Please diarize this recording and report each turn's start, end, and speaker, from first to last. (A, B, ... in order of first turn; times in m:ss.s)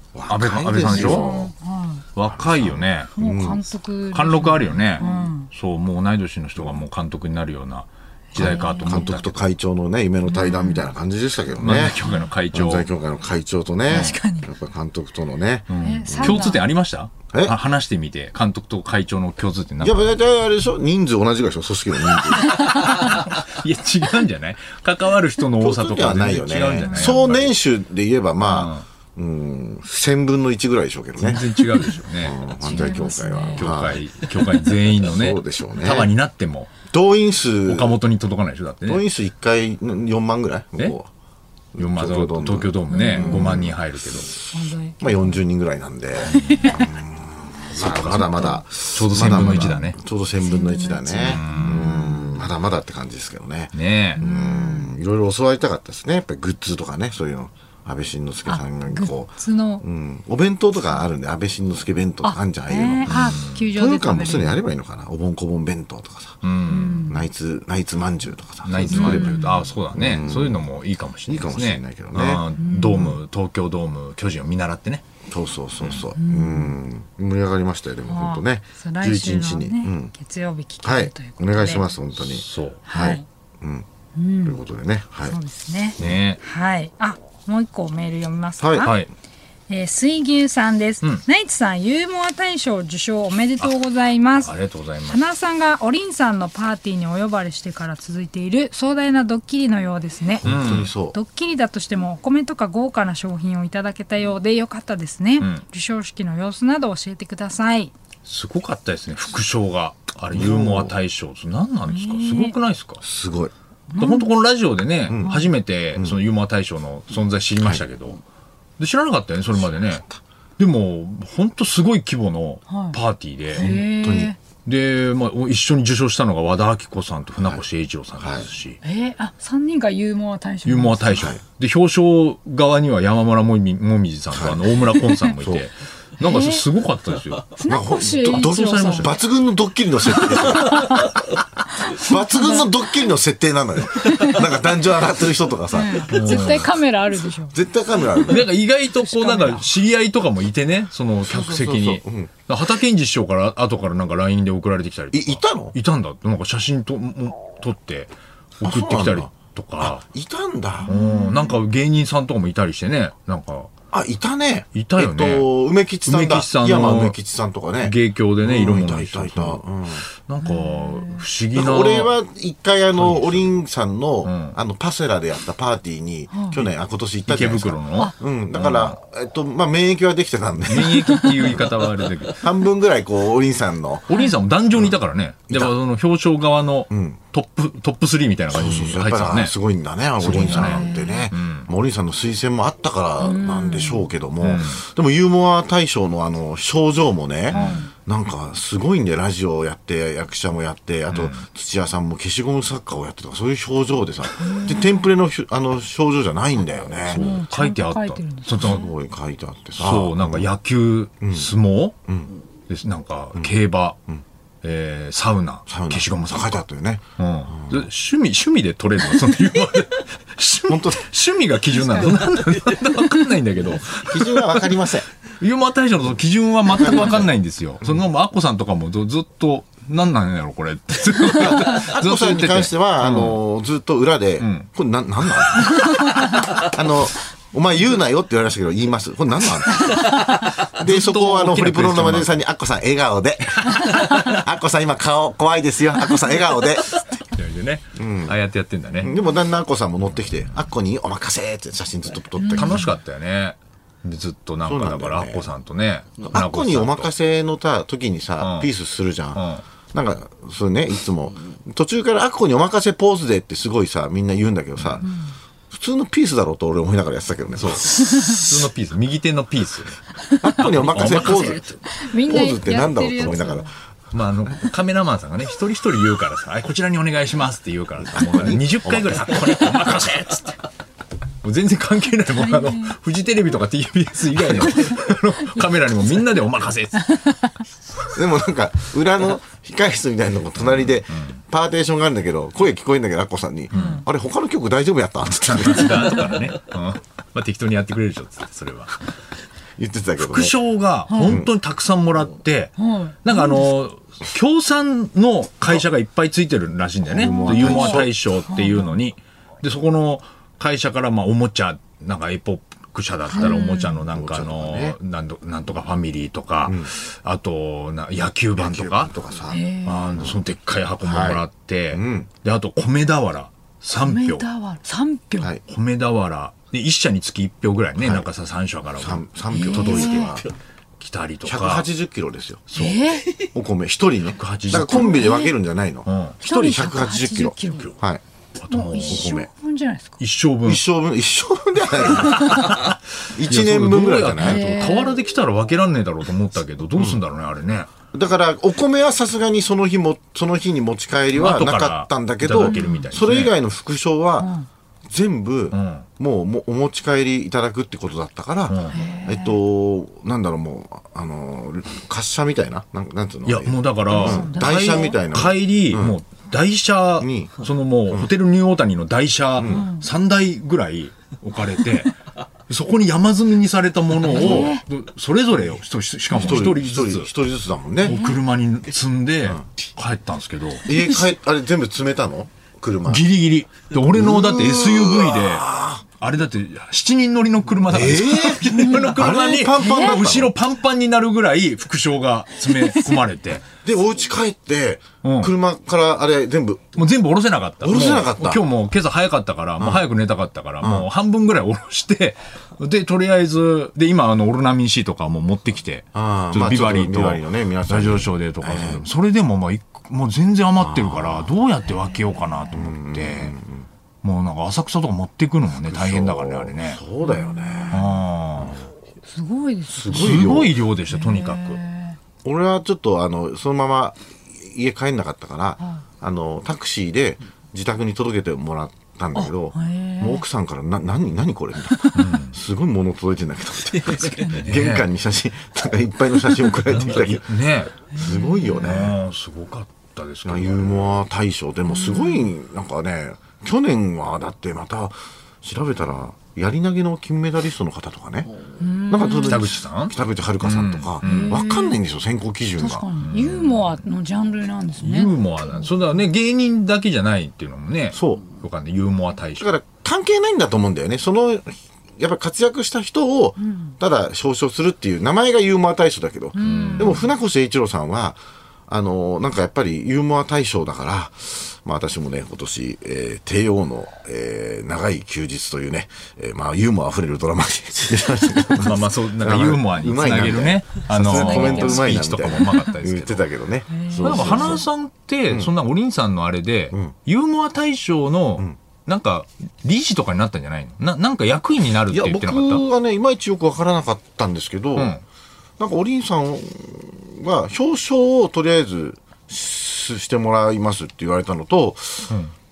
0:00.1-0:01.5 A
0:00.3-0:01.5 B
0:00.8-0:02.0 C
0:02.1-0:03.1 B
0:02.2-0:03.7 A
0:03.2-0:05.5 C
0:04.1-0:09.5 B
0:06.6-0:06.8 A
0:08.3-0:09.1 C
0:08.4-0:12.0 A
0:10.3-0:10.8 C
0:11.6-0:12.9 B
0:12.5-0:16.5 A
0:13.9-0:14.2 B
0:13.9-0:14.5 C
0:15.7-0:20.2 B
0:15.8-0:16.7 C
0:17.3-0:17.6 A
0:19.8-0:22.7 A
0:22.5-0:27.5 B
0:25.6-0:31.5 A
0:26.8-0:27.2 C
0:28.4-0:28.8 B
0:31.2-0:33.0 B
0:32.2-0:34.0 A
0:32.6-0:33.7 C
0:33.5-0:36.7 B
0:35.0-0:36.1 A
0:36.9-0:38.0 A
0:37.7-0:39.0 B
0:38.8-0:41.1 A
0:41.7-0:43.8 A
0:41.8-0:44.3 B
0:42.9-0:43.6 C
0:44.5-0:45.4 C
0:45.0-1:06.4 A
0:46.2-0:46.8 C
0:46.2-0:46.8 B
0:47.7-0:50.0 B
0:48.3-0:48.6 C
0:49.2-0:52.5 C
0:51.2-0:51.9 B
0:53.7-0:54.2 B
0:54.2-0:54.9 C
0:58.4-0:59.8 C
1:02.2-1:04.6 C
1:03.1-1:03.6 B
1:06.4-1:07.0 B
1:06.6-1:07.2 C
1:07.0-1:10.7 A
1:08.6-1:15.0 B
1:08.8-1:09.7 C
1:11.3-1:13.2 A
1:12.6-1:13.1 C
1:15.3-1:20.1 A
1:15.8-1:16.0 B
1:16.2-1:16.8 C
1:18.1-1:21.9 C
1:20.8-1:23.8 A
1:22.2-1:22.8 B
1:22.8-1:23.2 C
1:24.2-1:24.6 C
1:24.4-1:25.4 A
1:25.3-1:29.0 C
1:26.0-1:26.4 B
1:28.6-1:28.9 A
1:28.8-1:29.1 B
1:29.7-1:34.5 C
1:34.4-1:35.2 B
1:35.1-1:40.4 C
1:40.4-1:41.2 A
1:40.4-1:40.9 B
1:41.0-1:47.9 C
1:48.2-1:53.0 B
1:50.3-1:51.0 A
1:51.8-1:52.6 C
1:53.0-1:53.5 A
1:53.9-1:54.3 C
1:54.0-1:58.2 B
1:55.1-1:55.4 A
1:57.6-1:57.9 A
1:58.8-2:00.0 B
1:59.5-2:00.2 A
2:00.6-2:03.8 B
2:02.7-2:03.0 C
2:03.5-2:04.4 C
2:03.6-2:04.3 A
2:04.6-2:08.8 B
2:07.4-2:07.6 A
2:08.2-2:08.5 A
2:08.8-2:11.3 C
2:10.6-2:17.5 B
2:11.1-2:11.4 A
2:14.3-2:14.8 A
2:15.4-2:15.6 A
2:16.2-2:16.6 C
2:17.5-2:19.1 C
2:17.7-2:21.1 A
2:18.4-2:19.2 B
2:20.5-2:21.1 C
2:21.8-2:22.8 C
2:21.9-2:26.8 A
2:24.0-2:24.5 C
2:25.7-2:27.6 C
2:26.1-2:26.7 B
2:27.5-2:28.5 A
2:28.2-2:40.0 B
2:28.9-2:29.7 C
2:31.2-2:32.3 A
2:35.1-2:35.8 A
2:38.6-2:40.9 A
2:40.8-2:41.6 C
2:40.8-2:43.7 B
2:43.9-2:50.0 A
2:44.7-2:45.5 B
2:46.0-2:47.2 B
2:47.8-2:52.1 B
2:50.4-2:51.2 C
2:51.5-3:01.7 A
2:52.9-2:53.5 B
2:54.2-2:54.6 B
2:56.3-2:56.6 C
2:57.2-2:58.9 B
3:00.7-3:02.4 B
3:00.8-3:01.8 C
3:02.4-3:04.1 A
3:04.1-3:09.5 B
3:04.1-3:04.4 C
3:05.5-3:05.8 A
3:06.9-3:07.2 A
3:08.5-3:27.3 A
3:10.2-3:11.7 B
3:10.3-3:11.3 C
3:13.2-3:14.1 C
3:14.4-3:14.8 B
3:17.5-3:17.8 B
3:17.5-3:17.9 C
3:21.1-3:21.4 B
3:24.4-3:25.1 C
3:27.0-3:28.8 B
3:27.1-3:28.9 C
3:28.5-3:30.5 A
3:29.8-3:32.0 B
3:31.2-3:31.5 A
3:32.1-3:32.3 A
3:32.7-3:34.0 B
3:34.6-3:36.6 B
3:35.7-3:37.9 A
3:37.2-3:53.4 B
3:40.7-3:41.1 A
3:41.8-3:42.2 C
3:42.9-3:43.3 C
3:44.0-3:45.1 A
3:46.7-3:47.3 A
3:51.3-4:07.0 A
3:54.4-3:54.7 B
4:00.4-4:02.4 B
4:07.3-4:09.1 B
4:08.0-4:08.4 A
4:09.0-4:12.9 A
4:12.4-4:12.8 C
4:12.4-4:17.1 B
4:14.6-4:15.5 A
4:16.3-4:25.0 A
4:18.4-4:18.7 B
4:19.3-4:19.6 B
4:24.8-4:25.0 B
4:25.0-4:25.4 C
4:25.7-4:28.5 A
4:27.5-4:30.0 B
4:30.4-4:33.7 A
4:30.6-4:31.8 B
4:30.9-4:33.7 C
4:34.1-4:40.6 B
4:38.0-4:40.0 A
4:41.4-4:47.2 B
4:42.3-4:43.0 C
4:47.0-4:47.4 C
4:48.1-4:56.3 A
4:50.6-4:51.4 B
4:53.7-4:54.0 B
4:53.7-4:54.0 C
4:55.4-4:59.0 B
4:59.8-5:00.6 A
5:00.2-5:19.1 B
5:01.1-5:01.4 C
5:01.2-5:01.5 A
5:02.8-5:03.6 C
5:07.1-5:08.1 A
5:07.2-5:09.0 C
5:13.3-5:14.0 C
5:13.3-5:15.0 A
5:16.6-5:16.9 A
5:18.6-5:20.4 A
5:19.5-5:20.1 C
5:19.8-5:24.4 B
5:21.0-5:22.3 A
5:24.0-5:25.5 C
5:25.6-5:30.4 B
5:28.0-5:28.3 A
5:28.9-5:30.5 A
5:29.5-5:30.5 C
5:31.0-5:31.9 B
5:31.4-5:32.6 A
5:32.7-5:33.1 B
5:32.7-5:33.4 C
5:33.4-5:38.2 A
5:34.3-5:35.3 B
5:34.8-5:35.5 C
5:36.0-5:36.4 B
5:36.4-5:38.0 C
5:38.6-5:39.3 B
5:38.7-5:40.2 C
5:39.0-5:39.5 A
5:40.2-5:40.8 B
5:40.6-5:44.7 A
5:42.7-5:47.9 B
5:44.4-5:45.2 C
5:46.9-5:47.2 A
5:48.1-5:54.5 A
5:51.3-5:53.5 B
5:52.6-5:53.1 C
5:54.4-5:54.7 C
5:55.1-6:06.2 A
5:55.7-5:56.0 B
5:58.7-5:59.0 B
5:58.9-5:59.6 C
6:03.4-6:12.1 B
6:04.1-6:05.2 C
6:07.2-6:08.3 A
6:09.6-6:09.8 A
6:09.7-6:10.1 C
6:12.7-6:17.3 B
6:14.3-6:14.8 C
6:14.3-6:14.7 A
6:16.3-6:18.2 A
6:18.0-6:20.8 B
6:18.0-6:18.4 C
6:20.8-6:23.2 A
6:23.0-6:33.6 B
6:24.1-6:26.0 A
6:27.9-6:30.5 A
6:28.7-6:29.3 C
6:29.8-6:30.2 C
6:32.6-6:33.2 C
6:33.8-6:37.0 A
6:35.2-6:35.5 B
6:37.0-6:53.5 B
6:37.8-6:38.6 A
6:39.8-6:40.1 A
6:40.8-6:41.1 A
6:46.1-6:49.1 A
6:50.8-6:51.5 A
6:52.0-6:52.7 C
6:52.7-6:53.9 A
6:54.2-6:57.0 B
6:55.8-6:58.0 A
6:57.2-6:58.1 C
6:57.9-6:58.9 B
6:58.6-6:58.8 A
6:59.2-7:00.4 C
6:59.9-7:00.8 A
7:00.1-7:01.8 B
7:01.1-7:02.2 C
7:02.4-7:17.5 A
7:05.8-7:06.0 C
7:09.4-7:10.4 C
7:12.0-7:12.3 C
7:12.1-7:12.6 B
7:14.1-7:15.1 B
7:14.2-7:14.6 C
7:16.8-7:18.0 B
7:18.1-7:18.9 C
7:18.2-7:19.2 A
7:18.6-7:21.2 B
7:20.4-7:28.5 A
7:21.9-7:22.5 C
7:28.8-7:29.7 C
7:29.0-7:33.1 A
7:29.4-7:31.6 B
7:31.2-7:32.0 C
7:32.8-7:35.9 C
7:33.2-7:34.0 B
7:35.0-7:39.7 B
7:38.1-7:38.4 A
7:39.6-8:04.8 A
7:43.6-7:43.9 C
7:46.5-7:47.3 C
7:46.6-7:47.2 B
7:58.8-8:03.5 B
8:01.3-8:02.1 C
8:03.9-8:04.8 C
8:04.2-8:12.8 B
8:12.1-8:15.2 A
8:15.0-8:15.2 B
8:15.8-8:22.4 A